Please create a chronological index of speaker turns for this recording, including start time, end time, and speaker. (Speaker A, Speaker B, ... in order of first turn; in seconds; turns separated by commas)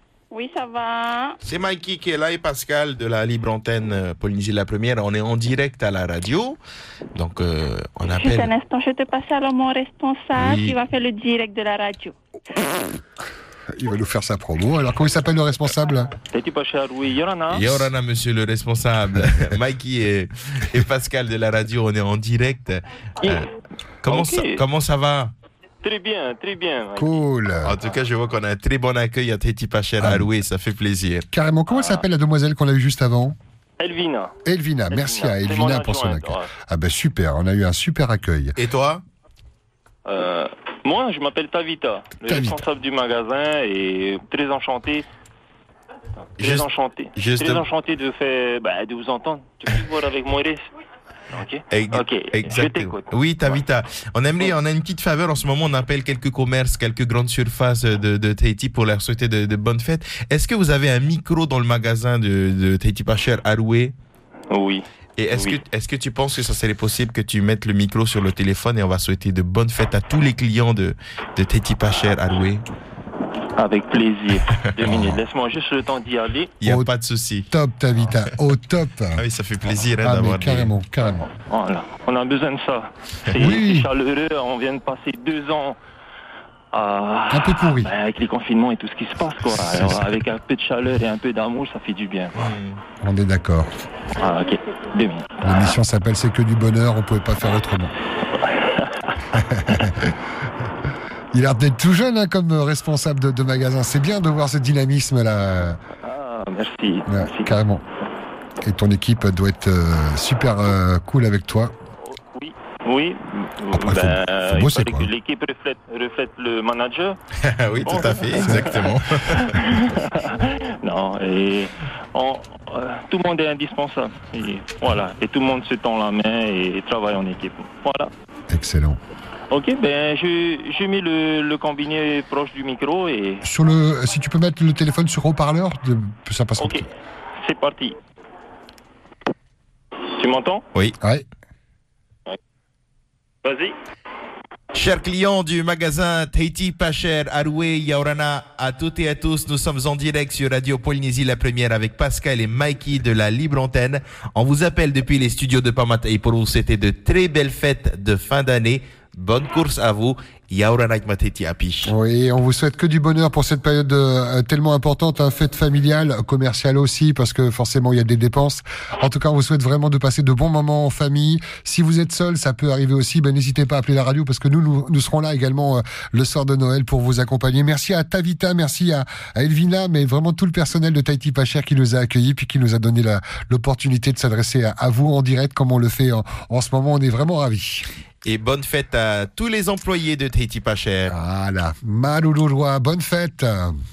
Speaker A: 0.3-1.4, Speaker B: 1.4-6.6, Speaker B: 7.1-8.5, Speaker A: 8.1-12.1, Speaker B: 10.3-10.8, Speaker C: 13.7-16.1, Speaker D: 16.3-17.9, Speaker B: 17.5-23.5, Speaker B: 24.0-25.3, Speaker D: 24.1-24.6, Speaker D: 25.8-27.1, Speaker C: 27.0-27.8, Speaker B: 27.6-31.2, Speaker C: 30.0-30.3, Speaker C: 31.3-33.4, Speaker D: 31.7-32.0, Speaker D: 33.8-34.3, Speaker C: 34.5-38.5, Speaker D: 34.9-36.5, Speaker B: 38.5-39.0, Speaker D: 40.1-45.0, Speaker C: 42.2-42.6, Speaker D: 46.4-50.6, Speaker B: 46.4-47.6, Speaker D: 51.3-53.6, Speaker B: 51.7-63.9, Speaker D: 64.5-65.6, Speaker B: 65.2-72.6, Speaker D: 73.6-76.5, Speaker C: 74.8-75.2, Speaker B: 76.6-77.5, Speaker C: 76.6-76.9, Speaker C: 77.5-79.2, Speaker B: 79.2-80.7, Speaker C: 80.0-81.3, Speaker D: 81.5-85.8, Speaker C: 83.4-83.9, Speaker D: 86.7-92.5, Speaker C: 87.3-87.9, Speaker C: 89.6-90.2, Speaker B: 92.4-92.8, Speaker C: 93.0-93.7, Speaker D: 94.2-95.7, Speaker C: 95.4-97.9, Speaker D: 98.4-99.1, Speaker C: 99.3-100.2, Speaker C: 101.3-105.8, Speaker D: 106.0-107.5, Speaker C: 107.1-107.8, Speaker C: 108.6-111.7, Speaker D: 112.1-117.2, Speaker C: 113.7-115.1, Speaker B: 117.4-119.8, Speaker D: 117.8-128.1, Speaker C: 118.4-119.0, Speaker C: 128.5-129.0, Speaker D: 129.5-133.4, Speaker C: 133.4-136.9, Speaker D: 136.6-136.9, Speaker D: 137.4-138.0, Speaker D: 140.2-140.6, Speaker C: 141.0-141.2, Speaker D: 143.4-143.7, Speaker B: 144.7-161.9, Speaker C: 161.8-187.8, Speaker B: 188.2-191.1, Speaker C: 191.1-193.7